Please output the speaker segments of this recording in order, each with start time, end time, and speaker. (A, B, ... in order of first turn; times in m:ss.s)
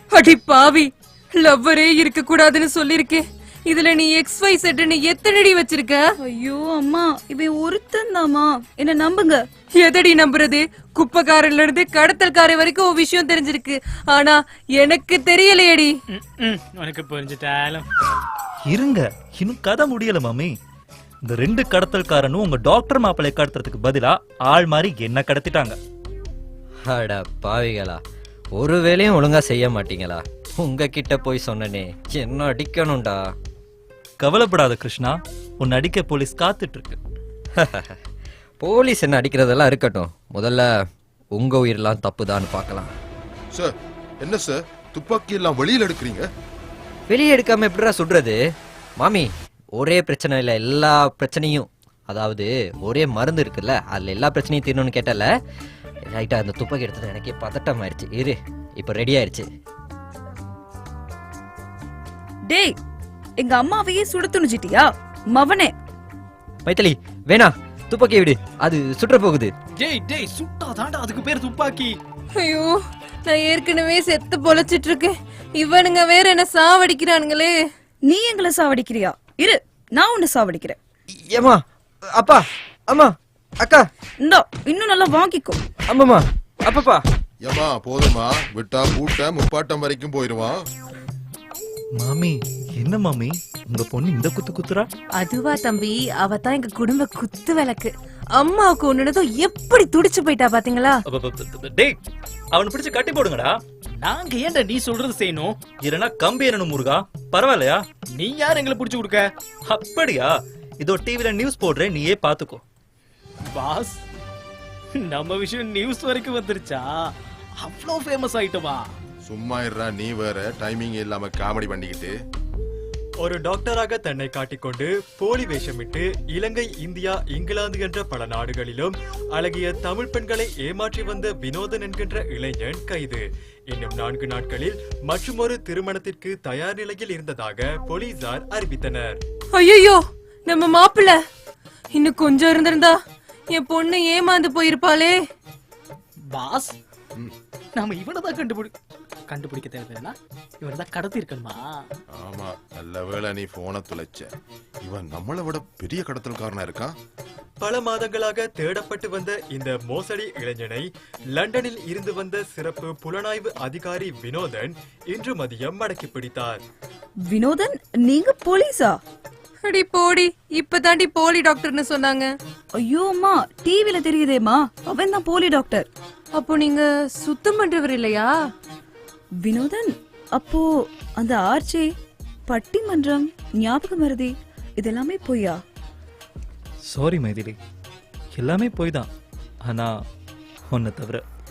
0:00.1-0:06.0 A
0:06.2-0:09.4 B
0:09.8-0:16.0 A
0:16.1-0:17.9 C
0:18.7-0:20.5 D
0:21.3-0:25.8 D
0:26.8-0:28.0 E
0:28.6-0:33.3 E
0:34.2-0:37.0 D
0:37.6-0:38.0 E
0:38.6-0:40.8 E
0:41.3-0:42.9 E
0:43.5-0:46.3 F
0:47.1-0:48.4 E
0:49.0-0:55.3 E
0:56.0-0:59.5 E
1:02.5-1:02.8 B
1:03.4-1:05.7 B
1:06.6-1:09.5 E
1:09.7-1:12.0 C
1:12.4-1:17.5 A
1:18.1-1:20.8 B
1:21.3-1:21.6 E
1:22.1-1:23.9 E
1:24.2-1:25.6 B
1:25.9-1:27.0 E
1:27.4-1:30.6 F
1:32.0-1:34.9 D
1:35.2-1:41.0 A
1:41.1-1:42.0 D
1:42.5-1:43.6 D
1:44.0-1:45.6 C
1:45.8-1:47.8 D
1:48.1-1:49.3 C
1:49.7-1:52.6 D
1:53.5-1:54.0 C
1:55.0-1:57.1 C
1:57.6-1:58.9 C
1:59.2-2:02.2 F
2:03.2-2:19.2 G
2:19.6-2:21.2 A
2:21.9-2:23.0 A
2:23.5-2:25.2 A
2:26.3-2:26.7 C
2:27.8-2:28.7 C
2:29.3-2:31.9 C
2:32.1-2:37.0 F
2:37.6-2:46.6 G
2:47.3-2:49.0 B
2:49.7-2:52.3 A
2:52.8-2:55.9 B
2:56.4-2:58.3 A
2:59.4-3:01.9 B
3:02.5-3:05.6 B
3:06.9-3:07.6 D
3:08.4-3:09.1 D
3:09.6-3:09.9 D
3:10.7-3:11.2 D